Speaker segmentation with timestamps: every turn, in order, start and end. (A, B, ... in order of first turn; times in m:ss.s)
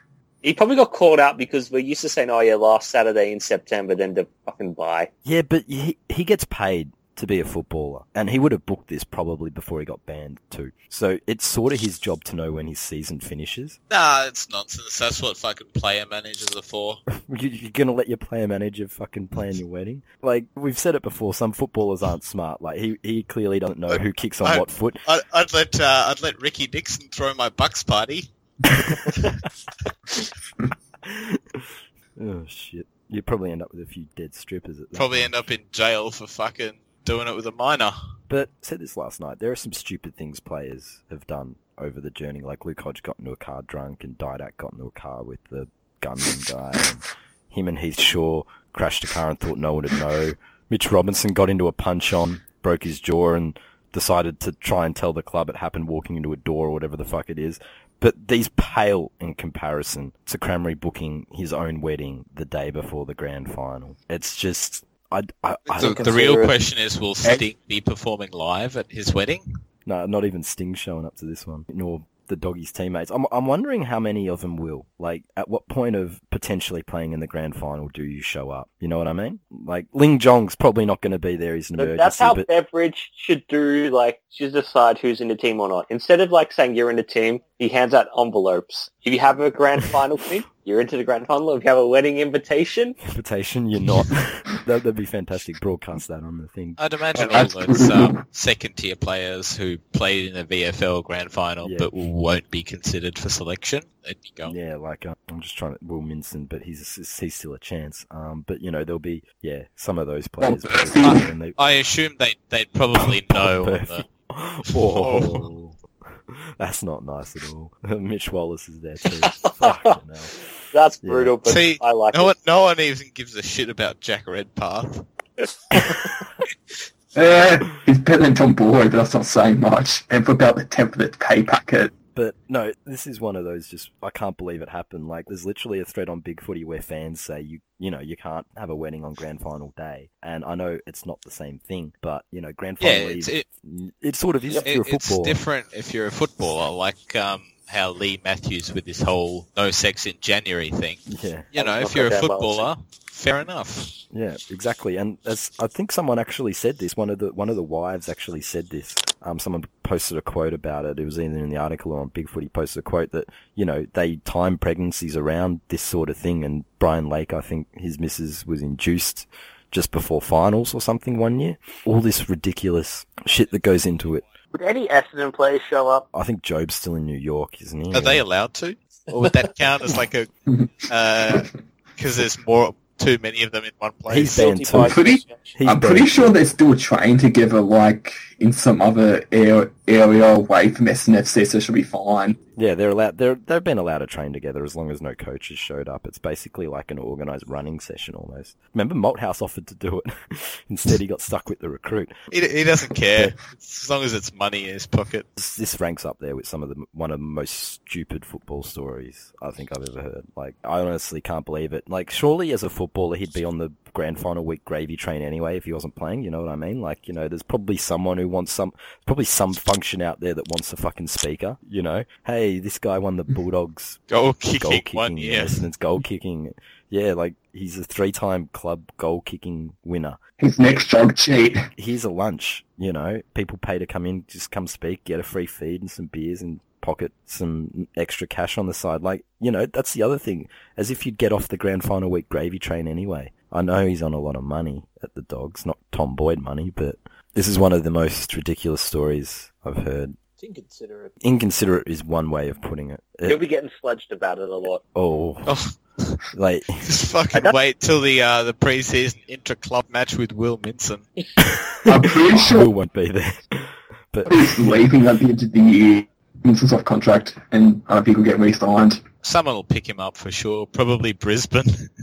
0:00.4-0:05.1 A
0:05.2-0:13.8 B
0:13.9-0:17.0 C
0:17.1-0:25.0 B
0:23.9-0:28.3 C
0:29.0-0:29.3 C
0:31.0-0:35.3 B
0:34.9-0:38.0 C
0:38.3-1:06.0 B
1:05.7-1:06.5 D
1:05.8-1:09.4 C
1:09.8-1:22.5 B
1:21.8-1:33.0 A
1:33.0-1:36.8 B
1:36.8-1:44.5 C
1:37.2-1:38.2 E
1:41.6-1:41.9 B
1:44.4-1:51.6 B
1:50.4-1:51.2 E
1:51.0-1:54.0 C
1:52.9-1:55.8 B
1:54.8-1:55.5 C
1:56.3-2:00.3 B
1:59.4-2:00.0 A
2:00.7-2:02.3 A
2:01.0-2:01.3 B
2:01.4-2:05.0 C
2:07.1-2:11.9 E
2:12.1-2:25.4 B
2:22.8-2:23.4 C
2:24.6-2:31.0 C
2:31.1-2:31.5 B
2:31.5-2:33.9 C
2:31.6-2:32.7 A
2:34.1-2:54.2 B
2:54.5-2:56.0 A
2:56.1-2:58.2 B
2:57.9-3:00.3 C
3:00.9-3:04.5 C
3:04.1-3:05.0 B
3:04.3-3:05.6 D
3:04.8-3:12.4 E
3:05.5-3:06.4 B
3:12.6-3:22.1 B
3:22.3-3:25.3 C
3:25.4-3:44.0 B
3:44.1-3:45.6 C
3:44.6-3:50.2 B
3:50.4-3:51.7 E
3:51.8-4:10.2 B
4:10.4-4:11.2 D
4:11.2-4:13.4 B
4:13.2-4:14.8 A
4:14.9-4:15.5 B
4:15.4-4:16.2 C
4:16.3-4:16.8 B
4:16.8-4:21.0 C
4:21.4-4:24.8 B
4:21.8-4:22.7 E
4:24.3-4:29.0 E
4:29.2-4:31.9 C